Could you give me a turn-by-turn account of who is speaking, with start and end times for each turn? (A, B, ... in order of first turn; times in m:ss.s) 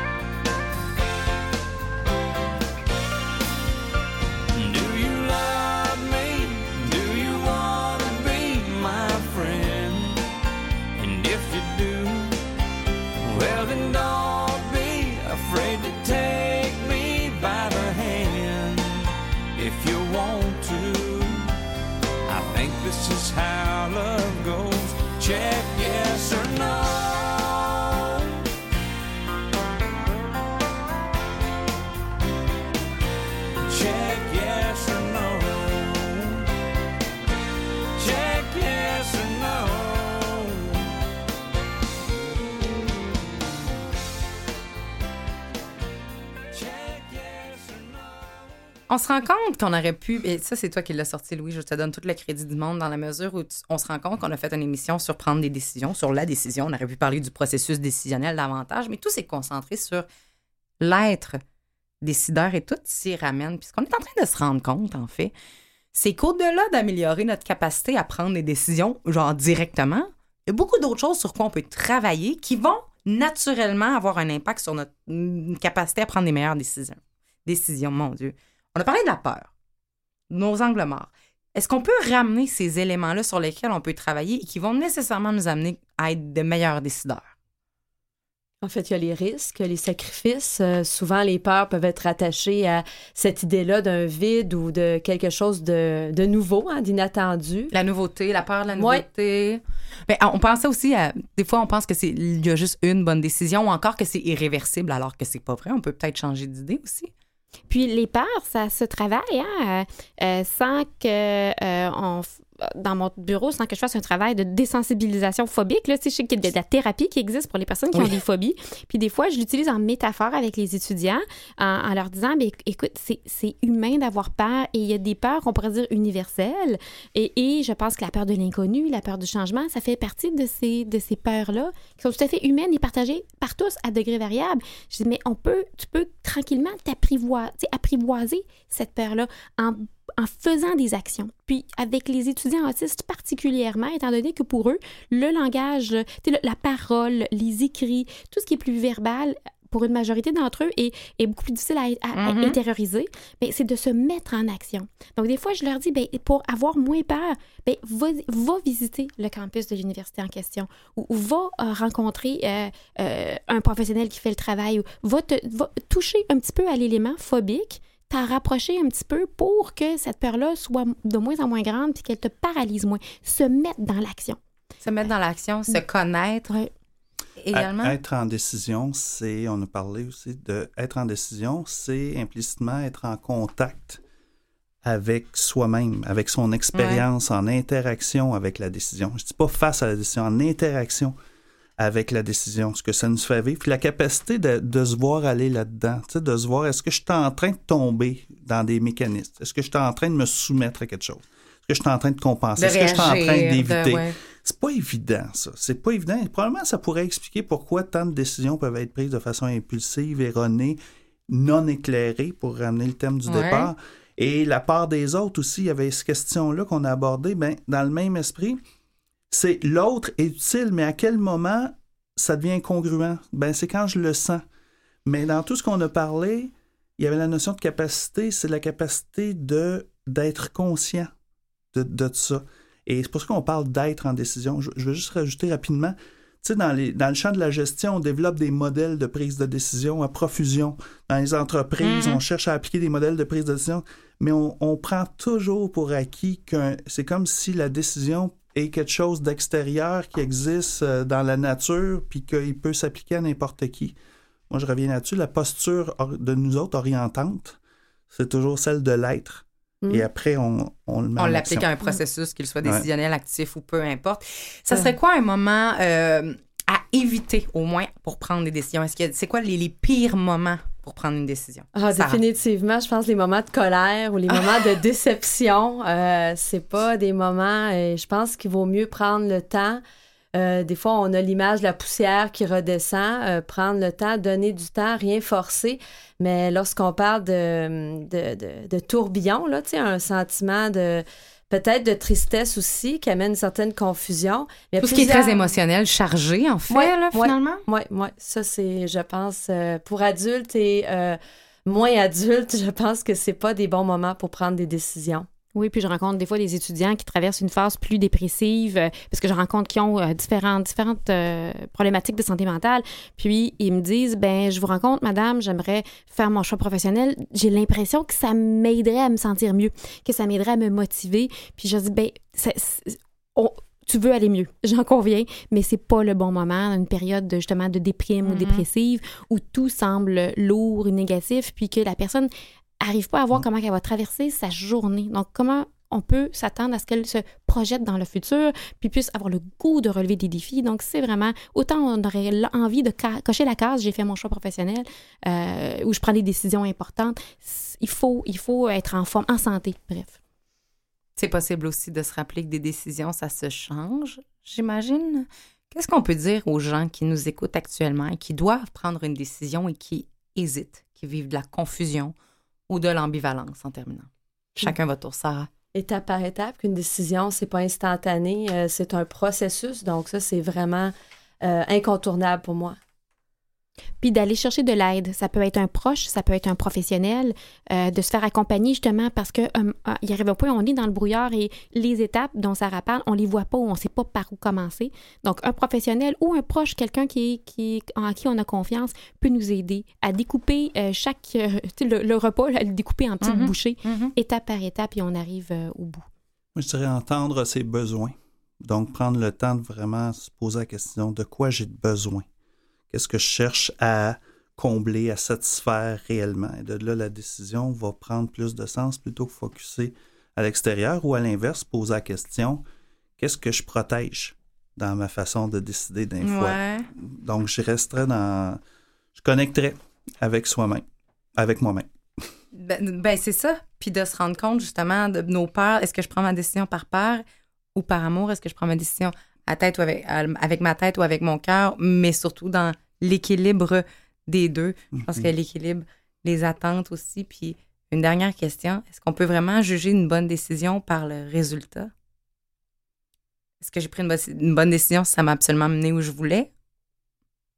0:04.5-0:10.2 A
0:11.0-0:12.4 A
0:13.2-0:21.5 A
0:22.3-0:28.0 A
0:33.6-0:36.4 A
0:38.0-0:40.8 A
0:46.5-0:48.4 A
0:48.9-1:00.1 B
1:00.8-1:01.4 B
1:02.0-1:05.3 B
1:05.9-1:19.5 B
1:20.3-1:27.3 B
1:28.6-1:37.7 C
1:37.7-1:47.1 B
1:38.8-1:39.0 C
1:47.7-2:54.4 D
2:32.1-2:32.6 B
2:54.8-2:56.6 B
2:57.4-2:58.0 B
2:57.5-3:04.0 E
3:04.8-3:11.2 E
3:06.7-3:07.0 B
3:11.8-3:38.6 E
3:22.6-3:24.2 B
3:33.3-3:33.7 B
3:39.3-3:44.4 E
3:45.0-3:51.1 E
3:51.7-4:14.0 E
4:01.8-4:02.2 B
4:14.5-4:17.6 E
4:18.1-4:21.7 E
4:21.2-4:32.2 B
4:31.8-4:39.8 C
4:40.3-4:55.5 C
4:54.8-4:57.6 B
4:56.7-5:05.3 C
5:05.6-5:32.3 D
5:28.2-5:28.6 B
5:32.8-5:50.2 D
5:51.2-6:02.2 B
6:02.7-6:05.5 B
6:05.8-6:12.8 C
6:14.0-6:36.0 D
6:33.2-6:34.1 B
6:36.6-6:42.3 E
6:42.9-6:52.6 E
6:53.2-6:58.6 E
6:56.2-6:56.9 B
6:59.2-7:00.8 E
7:01.4-7:01.9 E
7:02.5-7:07.2 B
7:07.8-7:21.9 B
7:14.9-7:15.3 E
7:23.6-7:26.5 B